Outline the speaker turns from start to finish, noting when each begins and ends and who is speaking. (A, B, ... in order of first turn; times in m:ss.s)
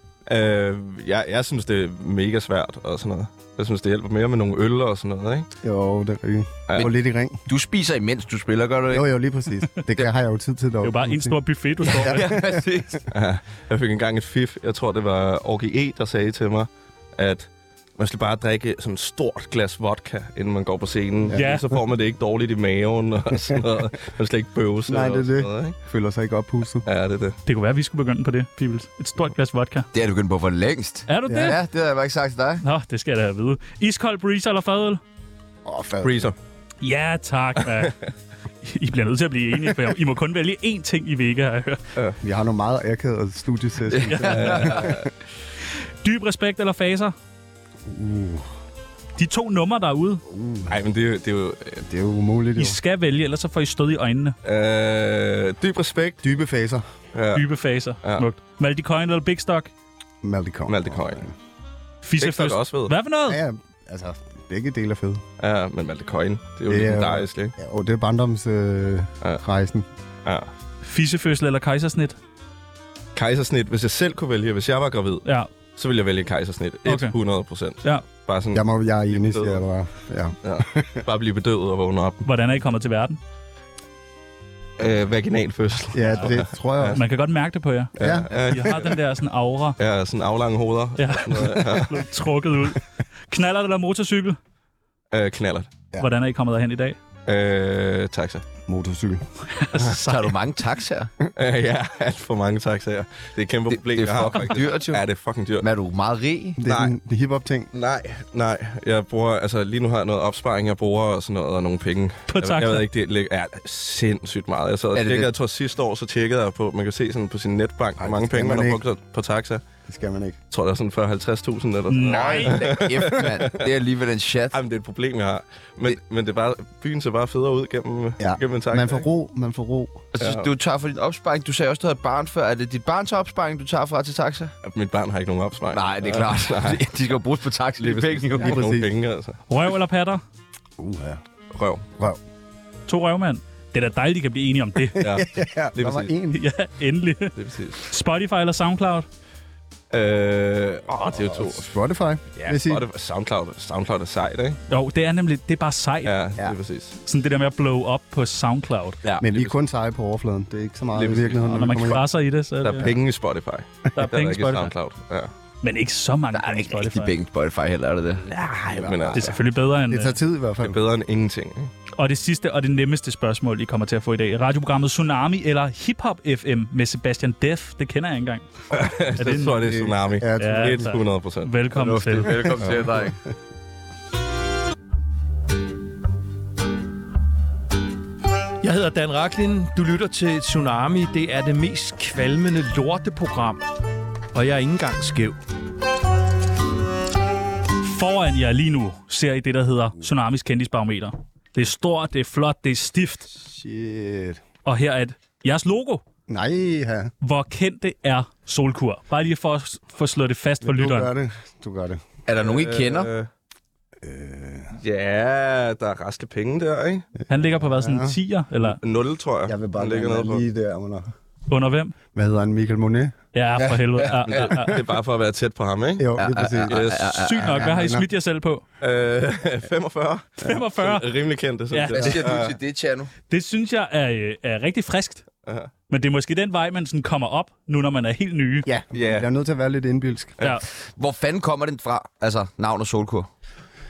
0:00.3-0:05.5 A
0:05.6-0:07.4 B
0:07.5-0:09.1 C
0:08.9-0:11.4 B
0:10.8-0:12.3 D
0:11.8-0:13.0 C
0:12.0-0:13.0 B
0:13.1-0:25.8 A
0:21.2-0:21.6 B
0:21.3-0:21.6 D
0:23.3-0:23.6 B
0:24.9-0:26.8 B
0:26.8-0:27.4 A
0:27.4-0:29.9 D
0:29.9-0:32.6 C
0:31.1-0:31.6 D
0:31.3-0:31.5 B
0:32.6-0:35.0 D
0:35.6-0:36.3 B
0:36.0-0:36.4 A
0:36.8-0:38.0 D
0:38.6-0:41.8 D
0:42.2-0:45.1 B
0:43.9-0:44.9 C
0:44.2-0:45.1 A
0:46.0-0:47.1 D
0:47.9-0:48.4 B
0:49.2-0:50.2 D
0:50.2-0:50.8 B
0:50.7-0:51.8 A
0:51.8-0:52.8 B
0:52.6-0:54.3 D
0:54.4-0:56.2 A
0:56.2-0:56.8 B
0:57.1-0:57.4 A
0:57.3-0:59.7 D
1:00.2-1:01.3 B
1:00.7-1:01.3 A
1:02.0-1:03.4 D
1:02.2-1:02.9 A
1:03.3-1:05.2 B
1:05.4-1:07.5 A
1:06.6-1:09.9 B
1:10.8-1:12.2 D
1:13.1-1:19.6 A
1:16.8-1:17.1 D
1:18.5-1:21.0 B
1:20.4-1:22.3 A
1:22.2-1:23.2 D
1:24.8-1:27.0 A
1:25.9-1:27.0 B
1:26.9-1:29.8 D
1:28.0-1:28.7 B
1:28.0-1:29.0 A
1:29.8-1:32.0 A
1:31.0-1:34.4 D
1:35.1-1:35.7 A
1:36.0-1:37.0 D
1:37.2-1:38.4 A
1:38.7-1:39.2 B
1:39.5-1:40.4 D
1:40.0-1:41.1 C
1:41.3-1:45.6 A
1:43.7-1:45.0 C
1:45.6-1:46.6 C
1:46.6-1:47.7 B
1:46.6-1:46.9 A
1:47.7-1:59.6 A
1:52.3-1:52.8 D
1:54.9-1:55.3 C
1:58.0-1:58.8 B
1:59.9-2:00.4 B
2:00.5-2:03.6 A
2:01.9-2:02.8 D
2:02.0-2:04.6 C
2:04.5-2:09.1 A
2:08.2-2:10.0 B
2:10.1-2:14.5 C
2:10.2-2:10.5 A
2:14.6-2:16.9 A
2:15.7-2:18.6 C
2:17.8-2:19.4 A
2:18.4-2:18.9 B
2:19.5-2:20.2 D
2:20.8-2:21.2 B
2:21.5-2:21.8 A
2:22.9-2:25.0 D
2:24.9-2:26.4 B
2:25.0-2:26.1 A
2:26.3-2:29.1 D
2:27.3-2:27.8 A
2:29.9-2:31.7 A
2:31.1-2:32.8 B
2:32.3-2:34.6 A
2:34.7-2:36.1 D
2:36.0-2:37.0 A
2:37.0-2:39.0 D
2:39.0-2:39.5 A
2:39.2-2:42.0 B
2:40.9-2:42.0 A
2:41.5-2:42.9 D
2:42.6-2:45.3 A
2:43.9-2:44.7 D
2:45.6-2:47.1 D
2:46.3-2:48.2 C
2:48.3-2:49.4 A
2:48.8-2:49.4 B
2:49.1-2:50.2 D
2:49.9-2:50.8 B
2:50.6-2:51.7 A
2:52.0-2:58.4 D
2:58.7-3:01.5 A
2:59.2-2:59.6 D
2:59.6-3:00.9 B
3:00.4-3:02.6 D
3:01.7-3:03.2 C
3:02.6-3:03.1 A
3:08.6-3:13.6 E
3:14.3-3:15.4 E
3:17.8-3:23.3 D
3:23.3-3:24.4 B
3:24.6-3:26.0 D
3:26.3-3:27.1 B
3:27.2-3:31.1 D
3:30.6-3:32.0 B
3:32.3-3:33.1 C
3:32.4-3:33.3 A
3:34.0-3:34.8 B
3:34.8-3:37.1 A
3:37.2-3:38.2 B
3:37.3-3:38.8 D
3:38.6-3:40.4 A
3:39.4-3:41.1 B
3:41.5-3:41.9 D
3:42.1-3:43.7 B
3:43.3-3:44.8 D
3:44.2-3:47.2 A
3:46.0-3:46.8 B
3:46.2-3:47.5 C
3:47.2-3:48.6 D
3:47.4-3:48.1 B
3:48.8-3:52.6 A
3:50.4-3:51.0 D
3:51.7-3:52.3 D
3:51.9-3:53.1 C
3:53.3-3:55.2 D
3:55.4-3:55.7 A
3:55.9-3:58.7 D
3:58.6-4:00.4 B
3:58.9-3:59.3 A
4:00.7-4:03.3 C